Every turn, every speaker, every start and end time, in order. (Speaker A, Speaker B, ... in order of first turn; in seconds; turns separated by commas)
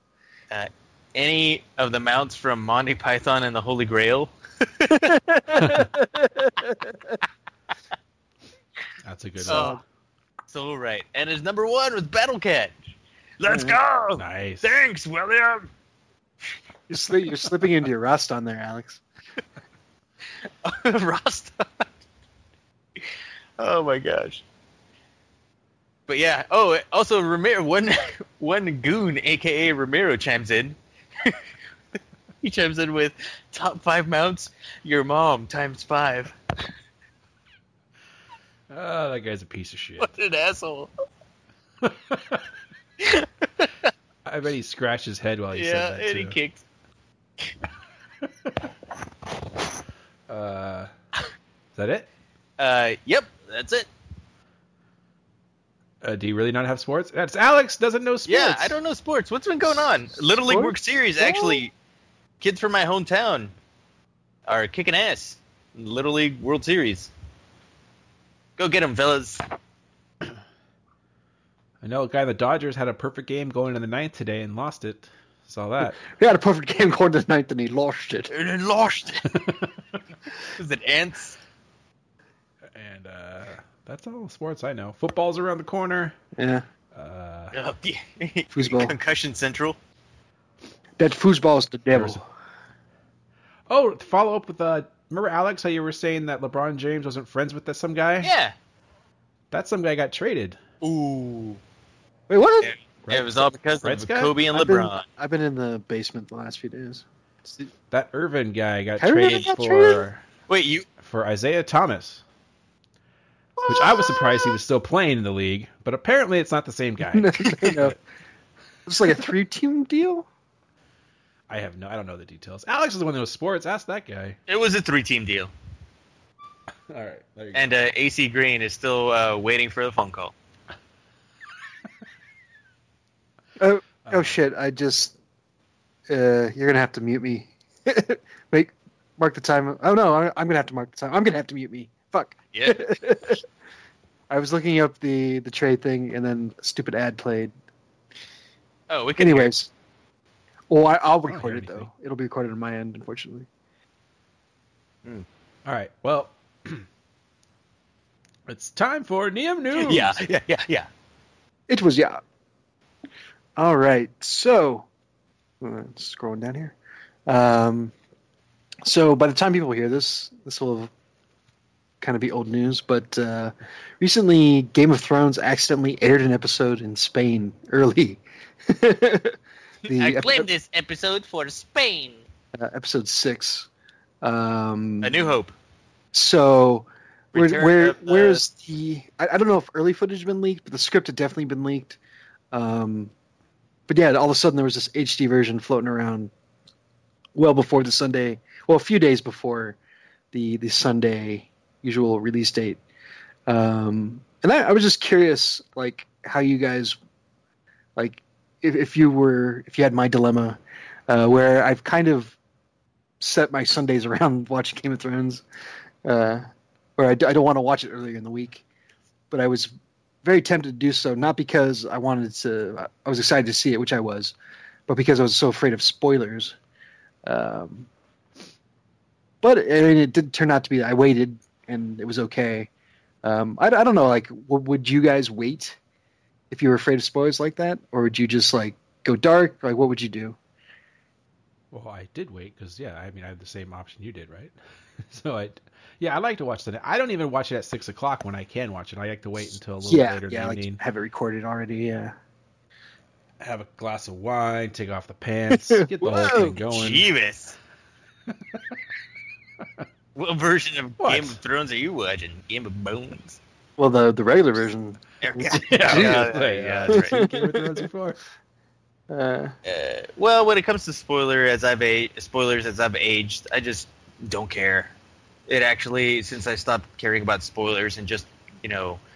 Speaker A: 0.5-5.2, Speaker B: 5.1-7.2, Speaker C: 5.6-5.9, Speaker C: 9.0-9.8, Speaker B: 9.4-9.8, Speaker A: 9.5-9.8, Speaker A: 10.5-12.8, Speaker A: 13.4-15.7, Speaker B: 13.5-13.8, Speaker C: 14.2-14.8, Speaker B: 16.9-19.0, Speaker A: 20.4-21.9, Speaker A: 23.6-24.4, Speaker A: 26.1-31.4, Speaker A: 32.4-36.4, Speaker C: 38.7-40.1, Speaker A: 40.0-40.9, Speaker C: 41.8-42.4, Speaker A: 43.0-43.9, Speaker C: 44.3-46.4, Speaker A: 45.5-46.6, Speaker C: 50.3-50.9, Speaker C: 51.8-52.1, Speaker A: 52.6-53.9, Speaker C: 56.0-58.8, Speaker A: 58.3-61.7, Speaker B: 60.5-61.6, Speaker A: 62.4-63.5, Speaker A: 64.5-67.1, Speaker A: 68.6-69.4, Speaker C: 71.8-76.0, Speaker B: 75.8-78.3, Speaker A: 78.3-79.3, Speaker C: 79.3-79.7, Speaker A: 80.5-81.4, Speaker C: 82.8-86.2, Speaker B: 86.4-86.7, Speaker C: 86.9-87.5, Speaker A: 87.5-89.8, Speaker B: 88.5-89.0, Speaker B: 91.0-92.2, Speaker C: 91.9-92.2, Speaker C: 93.7-98.3, Speaker A: 98.2-98.5, Speaker C: 99.5-100.6, Speaker A: 100.8-101.6, Speaker B: 102.3-102.7, Speaker A: 102.6-105.1, Speaker C: 103.0-104.4, Speaker B: 104.5-107.7, Speaker C: 107.9-110.2, Speaker B: 109.0-110.0, Speaker A: 110.5-110.9, Speaker C: 111.0-112.2, Speaker B: 113.6-114.5, Speaker C: 113.7-118.0, Speaker B: 117.1-118.0, Speaker B: 118.9-120.3, Speaker C: 121.5-124.4, Speaker A: 124.5-125.5, Speaker C: 126.9-127.7, Speaker A: 127.5-130.3, Speaker B: 133.6-135.2, Speaker C: 134.0-134.4, Speaker B: 136.1-143.4, Speaker A: 142.5-142.8, Speaker B: 144.3-147.5, Speaker A: 148.9-149.5, Speaker B: 149.2-149.7, Speaker B: 150.7-153.5, Speaker C: 151.3-151.9, Speaker C: 155.7-156.9, Speaker C: 158.5-160.2, Speaker A: 159.7-160.9, Speaker B: 161.7-162.2, Speaker B: 163.6-164.9, Speaker B: 165.6-166.8, Speaker B: 167.3-167.9, Speaker B: 168.8-170.9, Speaker B: 172.0-180.5, Speaker A: 179.8-182.2, Speaker B: 182.6-183.7, Speaker B: 184.2-185.4, Speaker A: 185.0-185.5, Speaker B: 186.1-192.0, Speaker A: 187.3-188.4, Speaker B: 192.5-193.1, Speaker B: 193.9-196.3, Speaker B: 197.3-199.8, Speaker B: 200.3-202.8, Speaker B: 203.5-207.0, Speaker B: 208.0-212.4, Speaker B: 213.2-215.4, Speaker B: 216.1-216.5, Speaker B: 217.0-218.6, Speaker B: 219.3-219.7, Speaker B: 220.2-224.3, Speaker B: 224.9-226.6, Speaker B: 227.2-227.9, Speaker B: 229.4-232.7, Speaker B: 233.2-235.8, Speaker B: 236.5-240.4, Speaker C: 241.7-250.8, Speaker B: 249.8-252.1, Speaker C: 253.4-257.1, Speaker B: 255.5-256.6, Speaker A: 256.6-257.6, Speaker A: 260.1-263.4, Speaker C: 261.0-261.4, Speaker B: 263.8-266.3, Speaker A: 265.2-267.2, Speaker C: 265.6-268.2, Speaker B: 266.9-267.9, Speaker B: 269.1-269.5, Speaker A: 269.6-274.9, Speaker A: 275.5-279.0